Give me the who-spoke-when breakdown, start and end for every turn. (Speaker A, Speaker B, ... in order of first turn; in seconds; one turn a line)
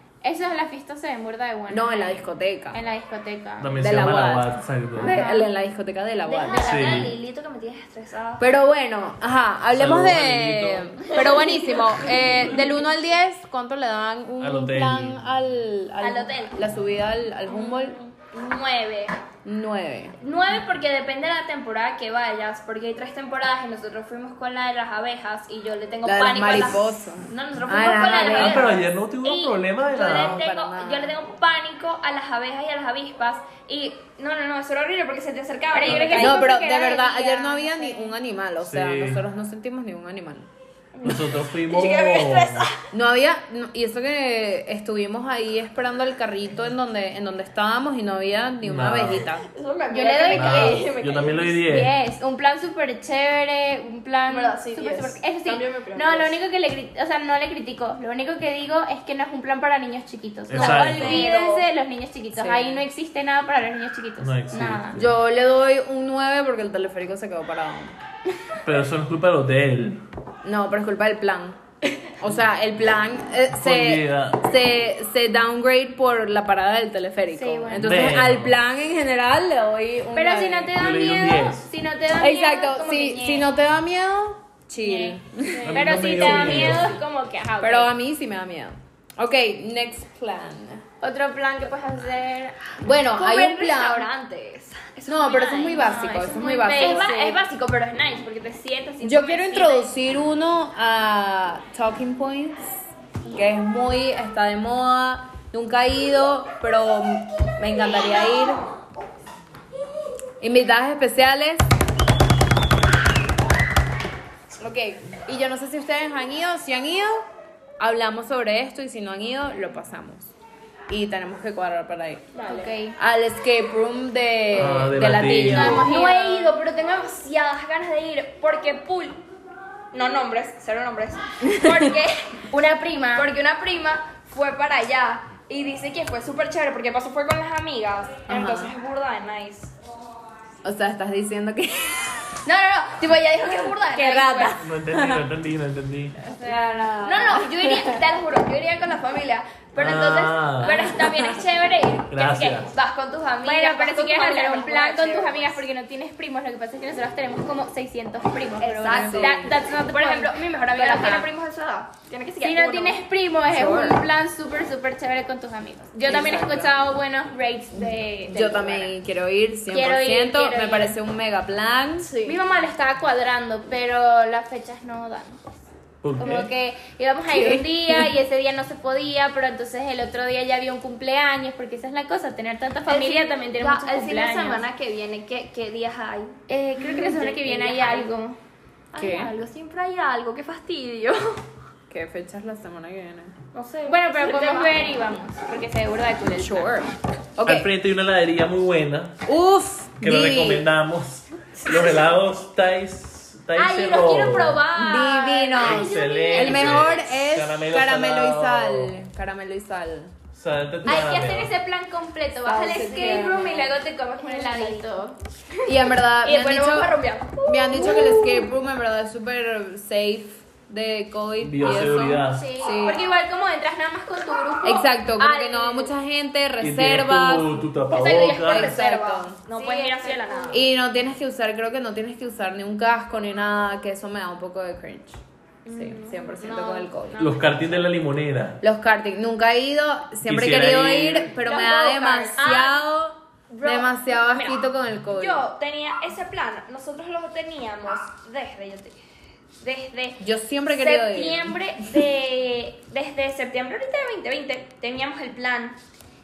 Speaker A: 0.2-3.8
Speaker B: 1.7-2.8
Speaker C: 3.6-5.1
Speaker B: 3.8-7.0
Speaker A: 5.0-5.5
Speaker D: 6.2-8.5
Speaker C: 6.7-7.1
Speaker B: 8.4-18.0
Speaker C: 9.7-11.2
Speaker D: 11.1-11.9
Speaker C: 12.1-12.5
Speaker C: 14.4-15.3
Speaker D: 16.0-16.6
Speaker D: 17.5-19.2
Speaker B: 19.4-20.1
Speaker D: 20.2-36.5
Speaker B: 26.0-28.8
Speaker A: 28.0-28.4
Speaker C: 28.2-30.4
Speaker B: 29.8-31.1
Speaker A: 35.7-38.1
Speaker C: 35.9-36.2
Speaker B: 36.1-40.5
Speaker C: 38.6-39.2
Speaker D: 40.9-42.8
Speaker C: 41.0-42.6
Speaker B: 42.9-49.5
Speaker C: 48.6-49.3
Speaker D: 49.5-51.6
Speaker A: 49.9-50.9
Speaker C: 50.3-51.9
Speaker A: 51.6-65.0
Speaker D: 54.3-56.3
Speaker C: 60.5-61.2
Speaker D: 60.5-61.7
Speaker B: 62.4-62.8
Speaker C: 64.2-65.0
Speaker B: 65.0-68.0
Speaker C: 68.7-70.0
Speaker B: 70.4-71.6
Speaker B: 72.2-80.7
Speaker C: 73.6-74.4
Speaker A: 77.3-78.1
Speaker C: 77.8-78.5
Speaker A: 80.1-83.5
Speaker C: 80.8-81.7
Speaker B: 82.2-86.7
Speaker A: 84.8-87.9
Speaker C: 85.7-87.0
Speaker B: 87.6-90.8
Speaker A: 91.0-92.6
Speaker B: 92.8-94.1
Speaker D: 93.1-96.1
Speaker B: 95.1-97.1
Speaker A: 95.5-97.4
Speaker D: 96.6-99.9
Speaker B: 99.0-102.8
Speaker B: 103.3-108.7
Speaker D: 107.9-108.6
Speaker B: 110.4-111.7
Speaker B: 114.6-117.2
Speaker B: 117.8-120.3
Speaker B: 120.9-122.4
Speaker D: 122.3-122.7
Speaker A: 122.4-123.0
Speaker B: 123.0-126.1
Speaker C: 124.5-125.9
Speaker A: 125.2-126.6
Speaker D: 125.3-129.2
Speaker D: 129.9-132.4
Speaker B: 131.4-131.9
Speaker A: 132.5-133.3
Speaker D: 133.1-139.7
Speaker B: 138.3-138.7
Speaker B: 140.6-142.2
Speaker D: 142.4-144.6
Speaker B: 143.9-145.2
Speaker C: 144.6-146.1
Speaker A: 146.2-147.0
Speaker B: 146.4-148.0
Speaker D: 147.0-155.6
Speaker C: 149.8-151.0
Speaker B: 150.6-151.4
Speaker C: 152.1-152.7
Speaker A: 153.4-161.3
Speaker D: 158.6-163.0
Speaker B: 158.9-159.4
Speaker A: 162.4-168.9
Speaker B: 163.5-163.9
Speaker B: 166.1-166.7
Speaker B: 168.3-172.1
Speaker A: 169.7-171.0
Speaker D: 172.0-172.4
Speaker A: 172.2-175.6
Speaker C: 176.0-176.5
Speaker A: 176.2-184.6
Speaker B: 177.3-178.1
Speaker D: 182.9-188.1
Speaker A: 186.5-188.4
Speaker D: 188.9-191.4
Speaker B: 189.0-189.3
Speaker B: 191.9-193.3
Speaker D: 193.5-194.8
Speaker A: 193.8-196.8
Speaker B: 196.3-197.7
Speaker C: 197.5-199.1
Speaker B: 199.2-200.7
Speaker C: 200.0-204.6
Speaker A: 203.5-207.2
Speaker B: 204.7-210.1
Speaker C: 205.6-208.9
Speaker C: 210.3-211.5
Speaker A: 210.8-215.2
Speaker B: 212.4-213.5
Speaker D: 212.7-214.9
Speaker D: 215.6-218.5
Speaker B: 215.7-223.1
Speaker C: 221.4-222.5
Speaker A: 222.2-225.9
Speaker B: 224.6-229.4
Speaker C: 226.6-228.7
Speaker D: 227.9-230.6
Speaker A: 229.5-230.6
Speaker B: 230.5-237.3
Speaker D: 235.6-237.6
Speaker C: 237.2-238.6
Speaker B: 238.6-245.4
Speaker C: 240.3-241.3
Speaker D: 241.4-242.8
Speaker D: 243.5-249.0
Speaker D: 249.6-255.8
Speaker B: 250.2-251.5